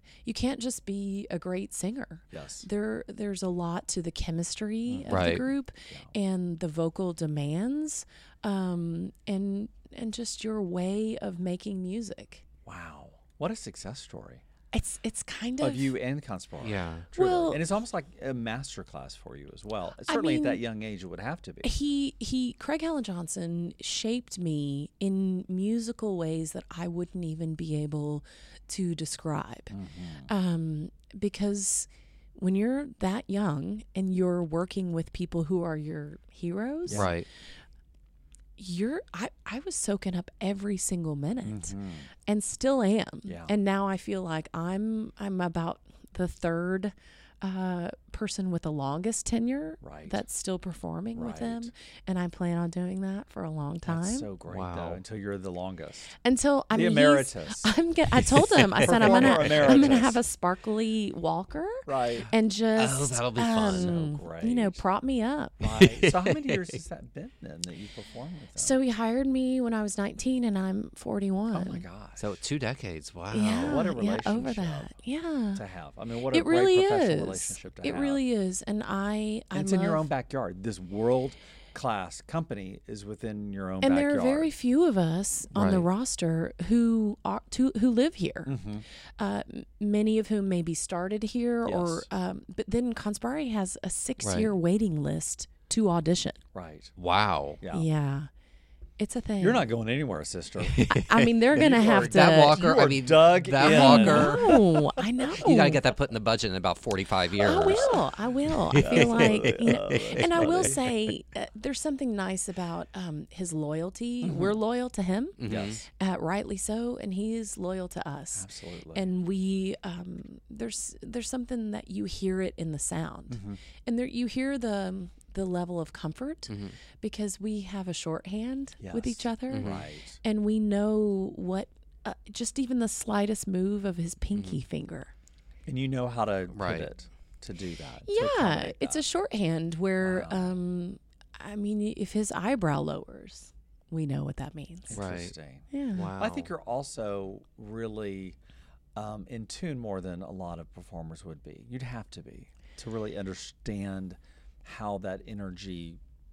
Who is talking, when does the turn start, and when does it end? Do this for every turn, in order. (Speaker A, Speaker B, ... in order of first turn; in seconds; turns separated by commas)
Speaker A: 0.2-12.4, Speaker B: 2.3-2.6, Speaker B: 4.9-5.3, Speaker C: 5.1-5.4, Speaker B: 12.7-14.4, Speaker A: 14.7-15.9, Speaker B: 15.6-21.7, Speaker C: 16.6-17.1, Speaker A: 17.1-17.6, Speaker A: 20.1-20.6, Speaker A: 21.6-29.7, Speaker B: 29.7-30.3, Speaker A: 30.3-37.1, Speaker B: 36.8-37.1, Speaker C: 36.9-37.3, Speaker A: 38.6-54.3, Speaker B: 41.4-42.1, Speaker B: 43.2-43.5, Speaker B: 49.8-50.2, Speaker B: 51.1-51.7, Speaker B: 53.8-56.1, Speaker C: 54.5-55.0, Speaker A: 56.2-65.6, Speaker B: 56.7-57.7, Speaker C: 58.2-60.0, Speaker B: 58.8-60.2, Speaker B: 61.9-62.3, Speaker C: 62.7-63.9, Speaker B: 63.7-64.8, Speaker B: 65.6-68.8, Speaker C: 65.6-66.8, Speaker A: 68.6-71.8, Speaker B: 71.5-72.3, Speaker C: 72.2-73.9, Speaker A: 73.3-75.6, Speaker B: 73.5-74.9, Speaker B: 75.5-78.2, Speaker A: 76.3-80.1, Speaker B: 79.5-84.5, Speaker A: 83.8-88.5, Speaker C: 85.5-85.9, Speaker B: 88.5-88.8, Speaker A: 89.2-96.4, Speaker B: 91.6-92.1, Speaker C: 94.2-94.5, Speaker B: 96.5-96.9, Speaker C: 97.0-97.6, Speaker B: 97.6-97.9, Speaker A: 97.7-98.3, Speaker A: 99.0-99.7, Speaker B: 99.4-100.8, Speaker C: 100.7-104.6, Speaker A: 100.9-102.8, Speaker B: 101.5-104.6, Speaker A: 103.6-105.8, Speaker C: 105.3-111.0, Speaker A: 107.4-115.4, Speaker B: 107.5-108.1, Speaker B: 108.7-110.8, Speaker B: 114.2-114.6, Speaker C: 115.4-115.8, Speaker B: 115.5-115.8, Speaker A: 116.0-129.7, Speaker B: 118.3-119.0, Speaker B: 123.3-123.6, Speaker C: 126.5-126.8, Speaker B: 128.8-130.2, Speaker C: 129.5-129.8, Speaker A: 130.2-135.1, Speaker C: 134.3-134.6, Speaker B: 135.7-139.0, Speaker C: 136.5-136.9, Speaker A: 138.1-145.0, Speaker B: 140.0-140.6, Speaker B: 144.9-148.4, Speaker C: 144.9-145.3, Speaker A: 145.7-146.1, Speaker C: 145.9-146.5, Speaker B: 148.9-156.0